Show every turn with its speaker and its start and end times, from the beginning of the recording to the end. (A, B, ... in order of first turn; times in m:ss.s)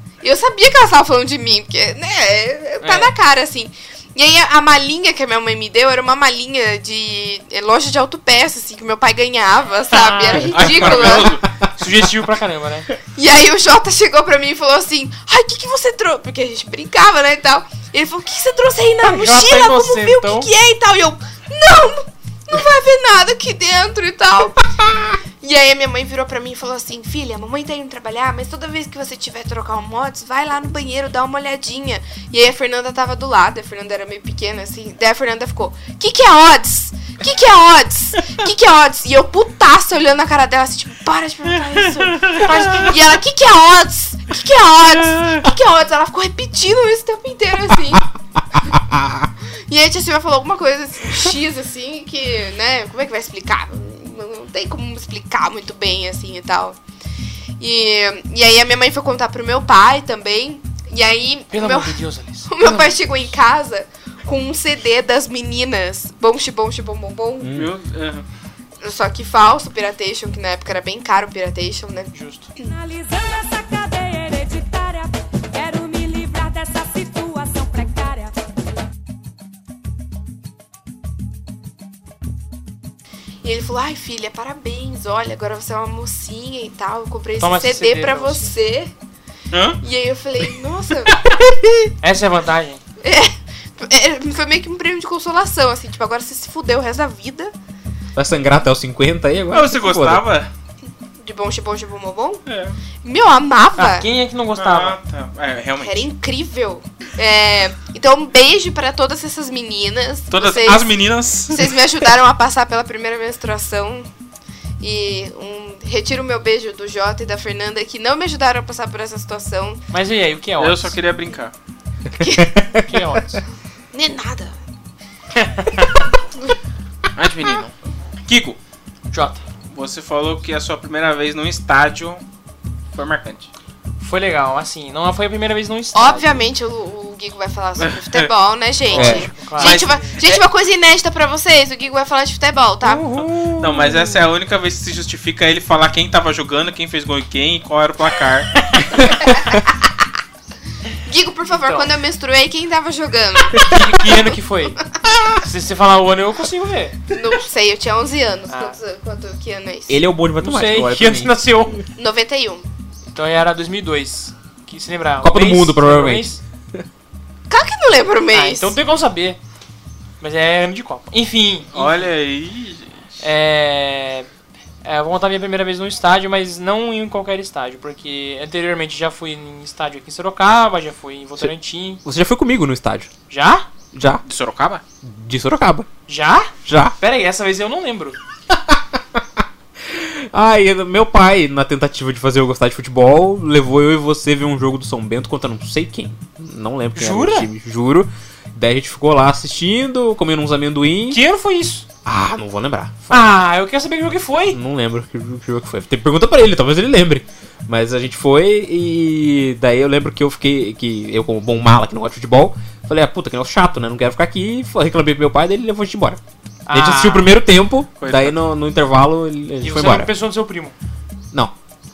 0:00.2-0:11.4 A
0:02.8-0:03.1 B
0:09.9-0:11.2 B
0:10.5-0:11.5 C
0:11.8-0:12.9 B
0:13.1-0:24.7 A
0:19.0-0:20.5 B
0:25.4-0:48.1 A
0:41.7-0:42.9 C
0:42.4-0:42.9 B
0:45.0-0:45.4 C
0:48.6-0:49.3 D
0:49.7-0:56.8 A
0:57.6-1:07.5 A
1:01.5-1:03.0 B
1:07.4-1:07.7 D
1:07.5-1:08.3 C
1:08.8-1:12.8 A
1:12.1-1:12.5 B
1:12.6-1:18.4 E
1:23.4-1:28.9 A
1:27.4-1:28.5 B
1:29.5-1:29.8 C
1:29.8-1:31.2 A
1:31.1-1:31.4 C
1:32.0-1:32.8 B
1:33.0-1:37.5 A
1:38.2-1:40.2 D
1:39.5-1:40.5 C
1:41.2-1:42.4 A
1:42.4-1:42.8 C
1:43.0-1:44.1 A
1:43.8-1:45.0 B
1:44.6-1:46.1 C
1:45.8-1:54.1 A
1:50.3-1:51.8 C
1:54.8-1:59.8 A
1:59.9-2:01.0 B
2:00.6-2:01.5 C
2:02.2-2:02.6 A
2:02.2-2:02.8 D
2:02.8-2:03.4 B
2:03.9-2:04.6 A
2:05.4-2:06.1 B
2:07.1-2:07.8 C
2:08.3-2:08.6 C
2:09.1-2:09.4 B
2:09.7-2:12.2 C
2:12.9-2:13.5 C
2:14.0-2:16.5 B
2:15.9-2:23.0 A
2:17.8-2:18.3 C
2:18.9-2:20.3 B
2:18.9-2:19.3 D
2:19.6-2:20.3 C
2:22.8-2:24.2 B
2:23.6-2:28.6 C
2:29.0-2:29.7 A
2:29.2-2:29.6 D
2:31.0-2:33.8 A
2:31.5-2:31.9 B
2:33.6-2:34.8 B
2:35.4-2:37.0 B
2:37.1-2:40.0 A
2:38.5-2:38.8 B
2:39.9-2:41.4 D
2:40.4-2:41.8 B
2:42.0-2:42.7 A
2:43.1-2:46.4 B
2:45.2-2:46.8 D
2:47.5-2:48.8 A
2:48.3-2:49.4 B
2:50.2-2:52.1 B
2:51.7-2:53.0 C
2:53.2-2:54.3 B
2:54.8-3:02.0 B
3:01.4-3:03.1 D
3:03.3-3:03.7 B
3:03.9-3:04.2 D
3:04.3-3:04.8 C
3:05.0-3:05.9 D
3:06.1-3:08.2 B
3:06.6-3:07.0 D
3:08.5-3:21.2 D
3:16.9-3:17.5 B
3:21.1-3:21.9 B
3:22.0-3:23.4 D
3:23.1-3:24.6 B
3:24.5-3:40.1 D
3:36.6-3:37.4 B
3:38.0-3:38.4 C
3:39.6-3:40.8 B